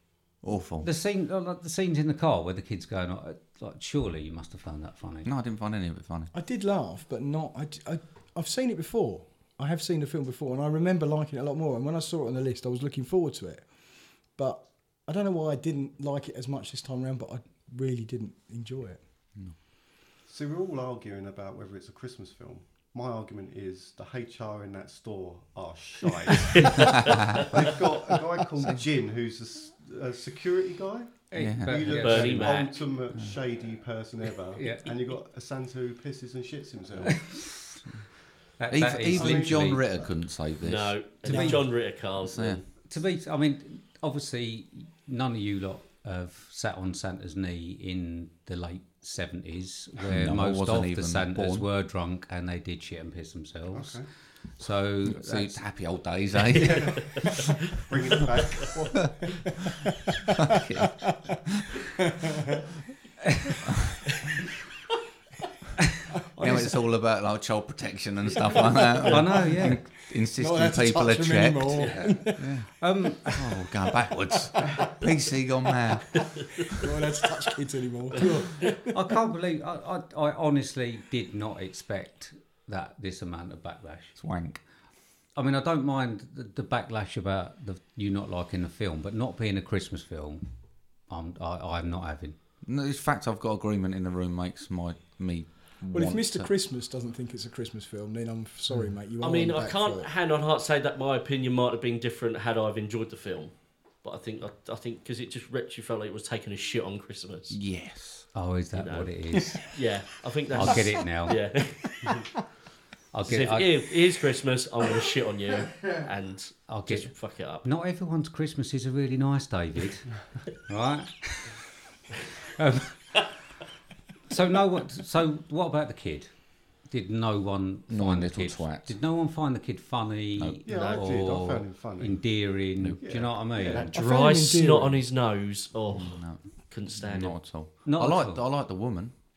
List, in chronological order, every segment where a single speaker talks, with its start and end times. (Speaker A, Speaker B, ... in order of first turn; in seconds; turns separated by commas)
Speaker A: 0.4-0.9, Speaker B: 0.8-5.3, Speaker A: 5.2-6.3, Speaker C: 6.3-19.0, Speaker D: 20.3-37.2, Speaker B: 31.3-33.0, Speaker A: 31.3-31.8, Speaker E: 31.9-32.9, Speaker B: 34.5-35.1, Speaker B: 37.0-37.8, Speaker B: 38.6-39.9, Speaker A: 38.7-42.6, Speaker D: 39.1-39.9, Speaker E: 40.6-42.7, Speaker C: 41.2-41.6, Speaker B: 41.3-41.6, Speaker B: 42.8-56.0, Speaker A: 50.0-51.7, Speaker D: 53.7-54.1, Speaker A: 55.0-57.3, Speaker D: 56.5-57.2, Speaker D: 57.8-59.1, Speaker A: 60.5-61.5, Speaker C: 66.3-66.8, Speaker A: 66.4-72.7, Speaker B: 69.0-69.9, Speaker C: 69.0-72.4, Speaker B: 71.8-73.6, Speaker A: 73.2-76.4, Speaker C: 76.8-79.0, Speaker B: 78.9-84.2, Speaker A: 84.2-84.6, Speaker B: 85.3-90.4, Speaker B: 91.0-92.3, Speaker A: 92.6-96.5, Speaker C: 95.9-100.1, Speaker E: 99.2-107.5, Speaker A: 107.5-108.3, Speaker B: 108.3-109.8, Speaker E: 108.7-112.0, Speaker B: 110.5-111.7, Speaker B: 113.1-113.9, Speaker E: 113.2-117.6, Speaker B: 116.7-120.1, Speaker B: 120.6-121.6, Speaker B: 122.6-123.4, Speaker B: 124.3-133.9, Speaker A: 127.9-128.9, Speaker A: 130.3-130.6, Speaker D: 130.6-133.9, Speaker E: 130.7-131.0, Speaker A: 132.8-133.0, Speaker E: 133.7-137.4, Speaker C: 133.9-135.0, Speaker A: 135.9-139.1, Speaker B: 137.7-138.4